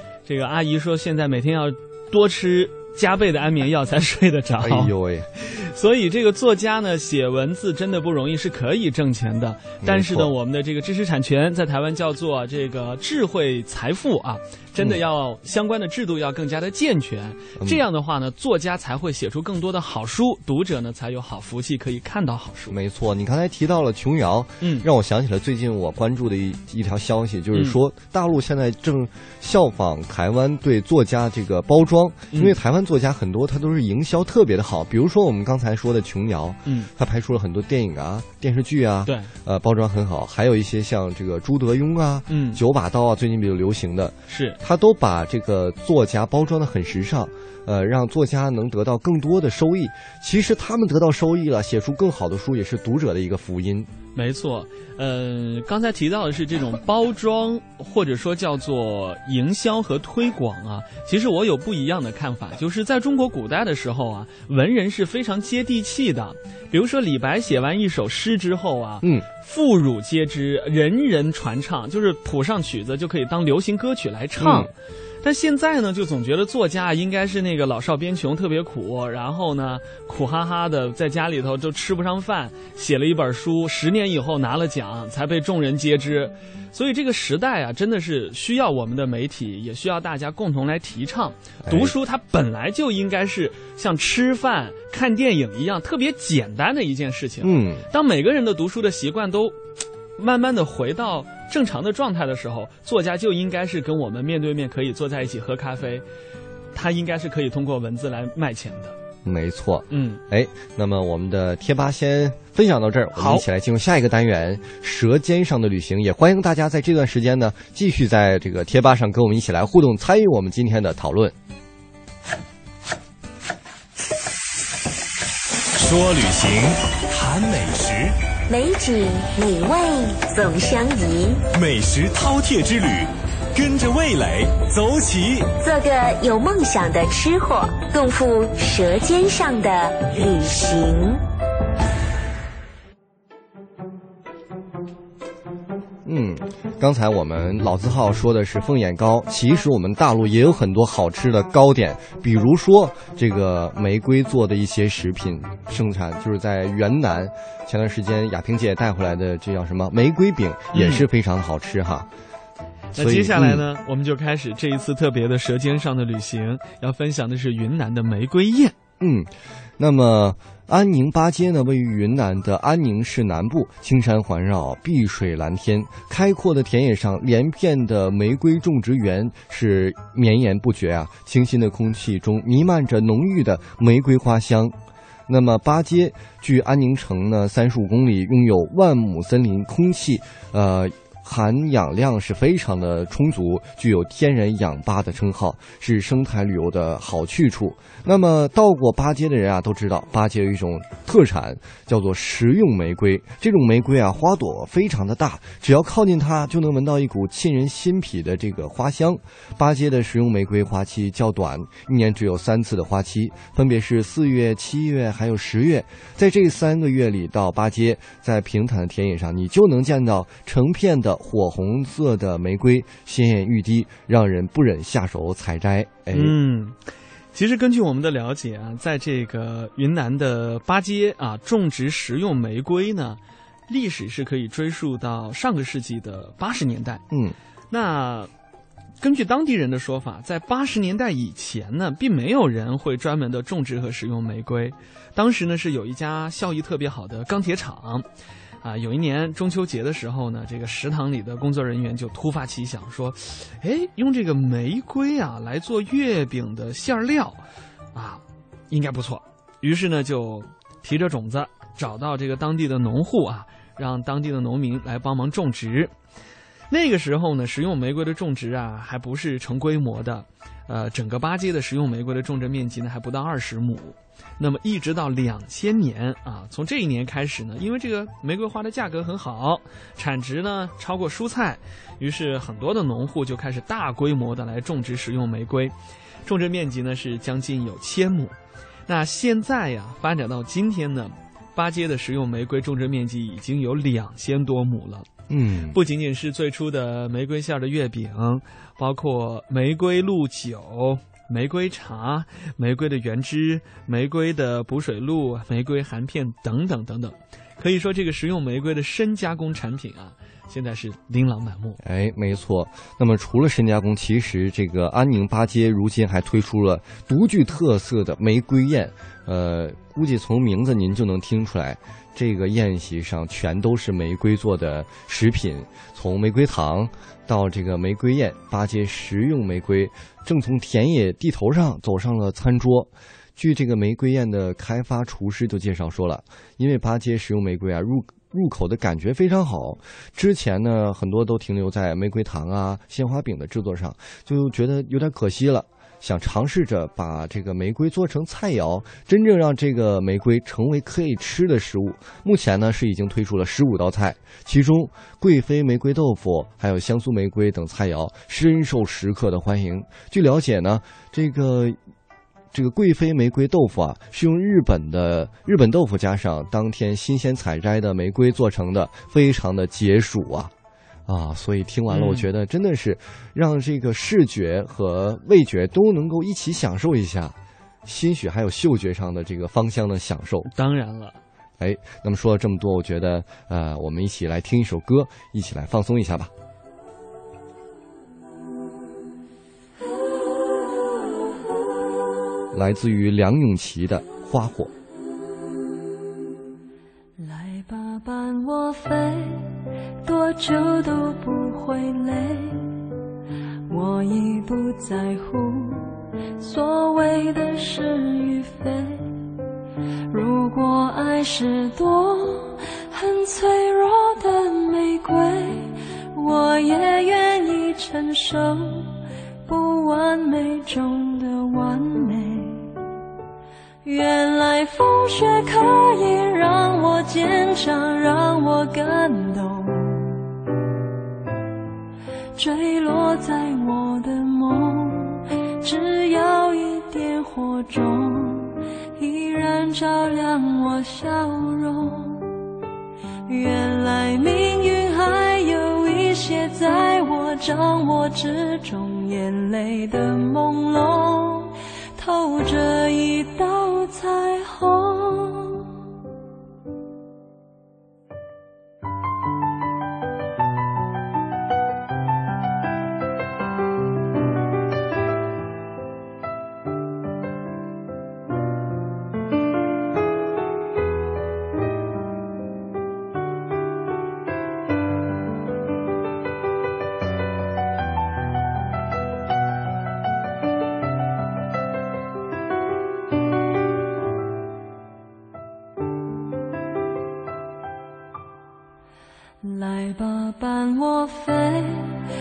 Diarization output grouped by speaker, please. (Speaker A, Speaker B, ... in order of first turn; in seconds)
Speaker A: 0.2-22.8, 24.6-24.9, 42.3-42.6, 44.3-44.6, 54.1-74.7, 75.2-99.6, 100.2-106.0, 106.7-108.9, 109.9-110.2, 113.2-113.4, 160.7-161.1, 162.9-168.7, 226.1-226.8, 227.3-237.0, 237.7-238.3, 239.0-248.0, 248.6-257.4, 257.9-265.9, 266.7-285.7, 286.2-288.4, 288.9-295.1, 295.7-311.8, 371.9-372.3, 380.4-381.2
Speaker B: 4.6-5.3, 9.8-10.3, 22.7-53.9, 69.0-69.3, 74.4-74.7, 91.6-92.0, 97.4-97.9, 109.2-121.3, 146.0-162.1, 162.9-163.6, 169.0-184.7, 185.3-226.3, 237.1-237.3, 295.3-295.8, 311.8-361.8, 362.5-370.5, 371.1-380.5, 381.6-386.3, 392.5-394.7
Speaker C: 125.8-128.1, 131.6-135.5
Speaker D: 128.6-129.6, 130.2-131.3, 135.7-141.0
Speaker E: 397.2-399.3, 400.1-402.6, 403.7-405.8, 406.4-409.0, 410.1-418.8, 419.5-422.6, 423.8-429.9, 432.4-438.4, 439.0-442.2, 443.3-451.4, 452.0-455.4, 489.4-491.7